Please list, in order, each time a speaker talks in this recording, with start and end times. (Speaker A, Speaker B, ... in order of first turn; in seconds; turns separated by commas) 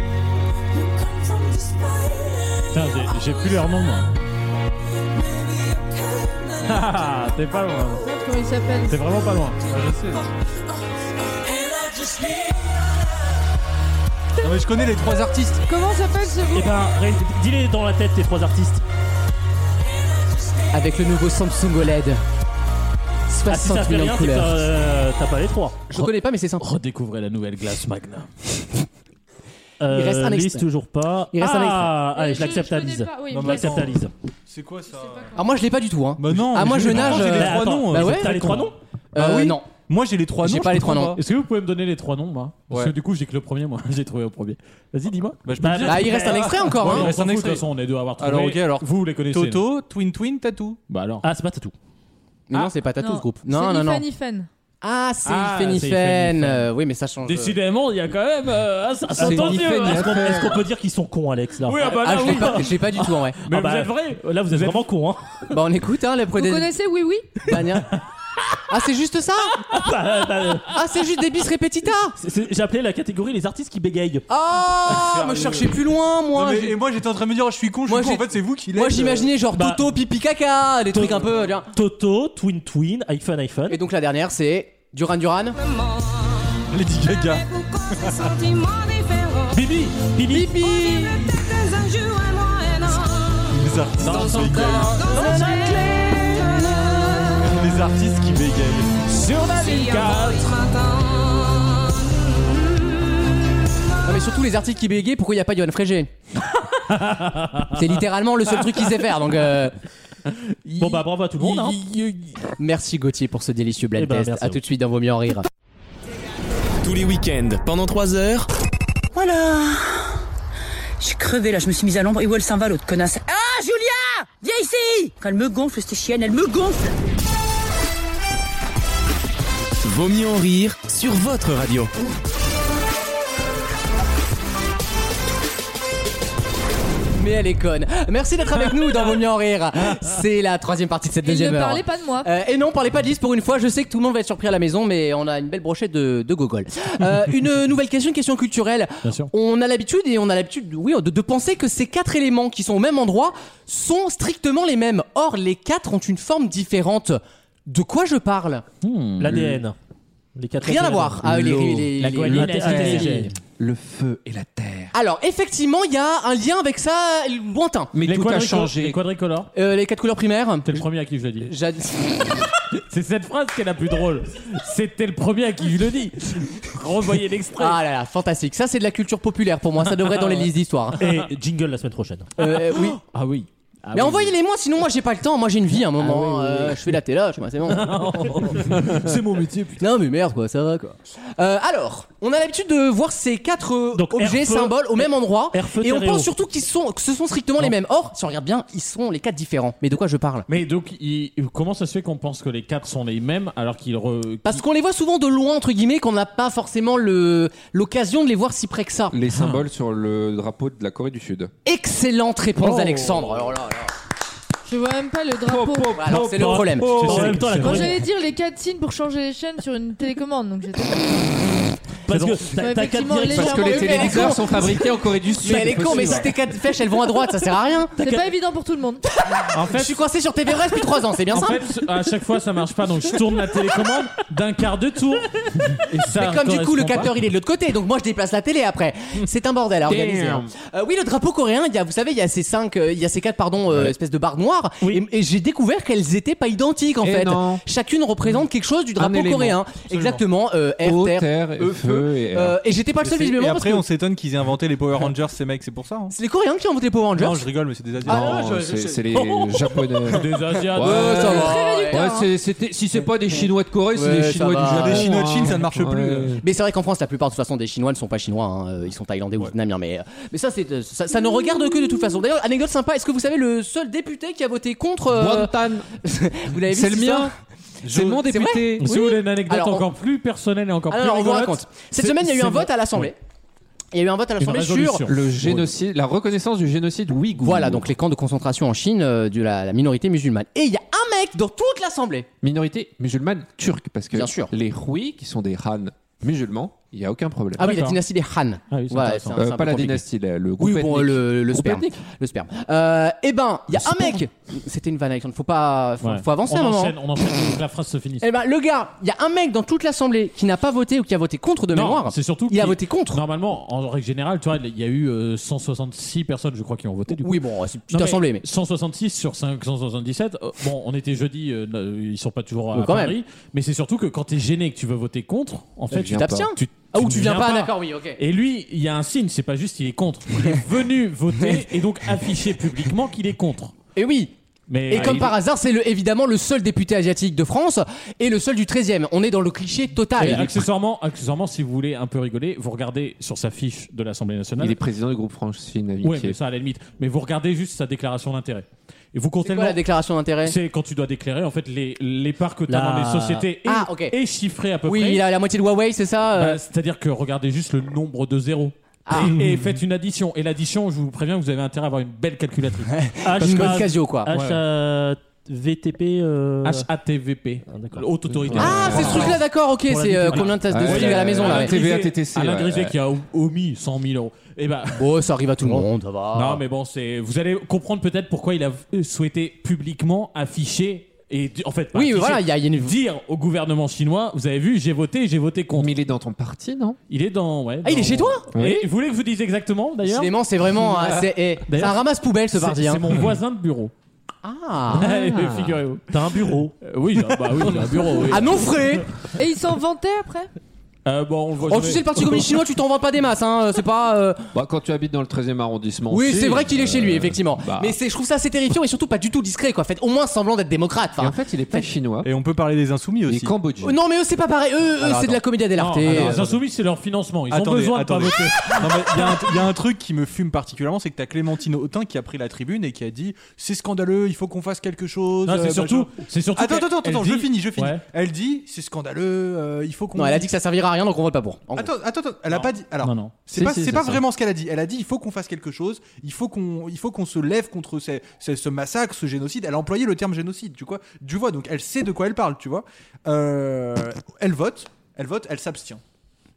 Speaker A: 0.7-2.6, Speaker B: 2.7-4.2, Speaker A: 5.3-6.5, Speaker B: 6.6-8.0, Speaker C: 8.0-9.0, Speaker B: 8.9-9.6, Speaker D: 9.6-10.3, Speaker A: 11.6-12.5, Speaker D: 14.4-15.6, Speaker C: 15.7-16.7, Speaker E: 16.5-18.8, Speaker F: 20.7-22.2, Speaker F: 23.3-24.6, Speaker E: 23.5-25.8, Speaker F: 25.9-26.7, Speaker B: 26.0-28.3, Speaker E: 29.8-34.1, Speaker F: 29.9-30.6, Speaker F: 31.4-31.9, Speaker C: 32.1-33.9, Speaker D: 33.3-35.4, Speaker C: 34.9-35.4, Speaker F: 35.4-38.4, Speaker D: 36.2-41.2, Speaker E: 36.9-38.8, Speaker F: 39.1-39.7, Speaker F: 40.4-41.2, Speaker B: 41.2-45.9, Speaker D: 42.7-43.0, Speaker D: 45.5-47.7, Speaker E: 45.6-46.5, Speaker F: 45.9-47.1, Speaker B: 46.8-49.7, Speaker D: 48.2-50.8, Speaker B: 50.9-51.3, Speaker E: 51.2-51.7, Speaker F: 52.5-54.0, Speaker C: 53.0-54.5, Speaker F: 54.8-57.6, Speaker B: 55.2-56.6, Speaker B: 57.2-60.4, Speaker E: 59.1-62.6, Speaker G: 59.2-60.6, Speaker B: 61.6-64.9, Speaker F: 61.8-63.4, Speaker E: 63.5-65.5, Speaker F: 65.5-66.7, Speaker C: 66.4-67.4, Speaker F: 67.4-68.0, Speaker F: 68.7-69.6, Speaker E: 69.7-70.8, Speaker F: 70.7-72.2, Speaker E: 72.2-74.2, Speaker F: 74.3-76.8, Speaker D: 75.0-75.8, Speaker D: 76.3-79.3, Speaker F: 77.9-81.7, Speaker E: 79.5-79.9, Speaker E: 80.9-81.2, Speaker E: 81.7-83.8, Speaker F: 83.7-85.6, Speaker D: 86.7-88.6, Speaker B: 89.5-90.6, Speaker F: 90.2-91.4, Speaker D: 93.5-95.1, Speaker B: 94.0-95.8, Speaker F: 95.1-97.4, Speaker D: 97.4-99.0, Speaker B: 99.1-100.9, Speaker F: 104.0-106.1, Speaker B: 106.7-107.8, Speaker F: 107.7-109.8, Speaker B: 110.3-112.3, Speaker E: 110.8-111.8, Speaker F: 112.6-115.5, Speaker E: 114.0-114.6, Speaker H: 116.8-118.5, Speaker A: 119.1-120.1, Speaker A: 121.0-126.9, Speaker H: 129.8-131.9, Speaker F: 137.2-158.7, Speaker C: 141.2-142.3, Speaker B: 149.0-149.3, Speaker B: 158.8-159.6, Speaker E: 159.2-159.8, Speaker E: 160.4-161.2, Speaker F: 160.6-163.3, Speaker G: 161.2-164.9, Speaker B: 162.0-163.2, Speaker E: 162.2-163.3, Speaker F: 164.9-167.9, Speaker G: 167.9-169.0, Speaker B: 168.0-169.5, Speaker F: 169.5-170.9, Speaker B: 170.7-171.5, Speaker F: 171.4-172.3, Speaker B: 172.7-177.8, Speaker F: 177.6-181.0, Speaker B: 180.0-180.5, Speaker E: 181.0-182.4, Speaker F: 182.4-183.0, Speaker B: 182.5-184.3, Speaker F: 183.9-188.3, Speaker E: 186.0-186.8, Speaker B: 187.8-189.8, Speaker E: 187.9-188.8, Speaker F: 189.8-200.5, Speaker E: 193.9-196.3, Speaker B: 200.5-204.6, Speaker F: 204.4-209.2, Speaker G: 209.1-211.5, Speaker B: 209.3-209.6, Speaker F: 211.7-213.9, Speaker B: 212.6-213.3, Speaker C: 214.7-216.0, Speaker G: 215.4-217.3, Speaker F: 215.9-217.5, Speaker E: 216.1-218.0, Speaker B: 217.0-217.8, Speaker C: 217.6-221.5, Speaker E: 222.1-224.3, Speaker B: 222.1-222.5, Speaker C: 222.6-224.4, Speaker G: 223.2-226.4, Speaker F: 223.5-227.9, Speaker C: 228.0-229.1, Speaker F: 229.2-231.8, Speaker B: 229.5-230.0, Speaker B: 231.3-237.1, Speaker F: 236.1-253.9, Speaker G: 239.8-240.5, Speaker G: 247.0-247.6, Speaker G: 249.0-249.6, Speaker D: 249.9-250.2, Speaker G: 250.8-252.6, Speaker D: 253.0-256.1, Speaker F: 256.1-257.5, Speaker D: 257.2-259.0, Speaker G: 258.0-266.4, Speaker F: 258.1-259.2, Speaker B: 260.1-261.6, Speaker F: 260.7-262.1, Speaker C: 261.3-262.3, Speaker F: 263.9-265.6, Speaker D: 264.6-266.4, Speaker F: 266.4-277.3, Speaker G: 275.1-275.9, Speaker G: 276.7-277.3, Speaker D: 277.8-278.2, Speaker G: 277.9-278.9, Speaker F: 278.0-279.9, Speaker B: 278.8-283.1, Speaker F: 280.9-283.2, Speaker F: 283.9-285.1, Speaker B: 284.4-285.7, Speaker G: 285.1-287.9, Speaker F: 287.4-292.3, Speaker G: 292.4-297.8, Speaker F: 294.1-294.5, Speaker F: 297.6-300.0, Speaker B: 297.6-298.0, Speaker B: 298.7-299.4, Speaker G: 299.4-301.9, Speaker F: 300.6-307.2, Speaker B: 303.9-304.2, Speaker B: 306.0-308.3, Speaker F: 308.2-313.2, Speaker B: 311.7-317.4, Speaker F: 317.1-318.4, Speaker B: 317.9-333.7, Speaker F: 322.7-323.2, Speaker G: 325.9-326.6, Speaker F: 325.9-328.2, Speaker F: 333.9-334.3, Speaker B: 334.7-335.4, Speaker F: 334.9-340.7, Speaker B: 340.1-344.8, Speaker G: 344.6-346.4, Speaker B: 346.0-349.8, Speaker F: 349.4-350.6, Speaker B: 350.4-355.2, Speaker E: 352.7-353.5, Speaker F: 353.7-354.2, Speaker F: 354.9-356.6, Speaker B: 356.3-364.6, Speaker F: 359.1-359.4, Speaker D: 359.2-359.5, Speaker F: 363.0-364.3, Speaker E: 363.2-366.9, Speaker B: 366.6-369.4, Speaker E: 367.7-369.4, Speaker G: 368.4-369.4, Speaker F: 368.6-372.0, Speaker E: 369.9-370.8, Speaker B: 370.3-375.1, Speaker G: 370.7-373.0, Speaker F: 374.9-376.6, Speaker B: 375.6-385.9, Speaker F: 381.9-383.0, Speaker G: 385.8-387.0, Speaker B: 387.1-390.3, Speaker F: 387.8-388.5, Speaker G: 388.5-388.9, Speaker F: 390.0-393.1, Speaker B: 391.7-393.9, Speaker F: 394.4-395.1, Speaker B: 394.9-396.2, Speaker G: 395.0-395.8, Speaker E: 396.1-396.7, Speaker B: 396.8-398.9, Speaker F: 398.2-399.1, Speaker C: 399.4-400.5, Speaker B: 401.1-402.6, Speaker F: 401.7-404.4, Speaker G: 404.5-408.0, Speaker F: 406.1-411.8, Speaker G: 411.2-412.3, Speaker D: 412.2-413.6, Speaker G: 413.3-414.0, Speaker F: 413.8-416.6, Speaker D: 415.0-415.4, Speaker B: 415.8-419.5, Speaker D: 416.1-416.4, Speaker D: 417.5-430.5, Speaker B: 425.4-428.0, Speaker F: 430.1-431.9, Speaker D: 431.8-446.0, Speaker B: 433.0-433.4, Speaker G: 433.5-434.2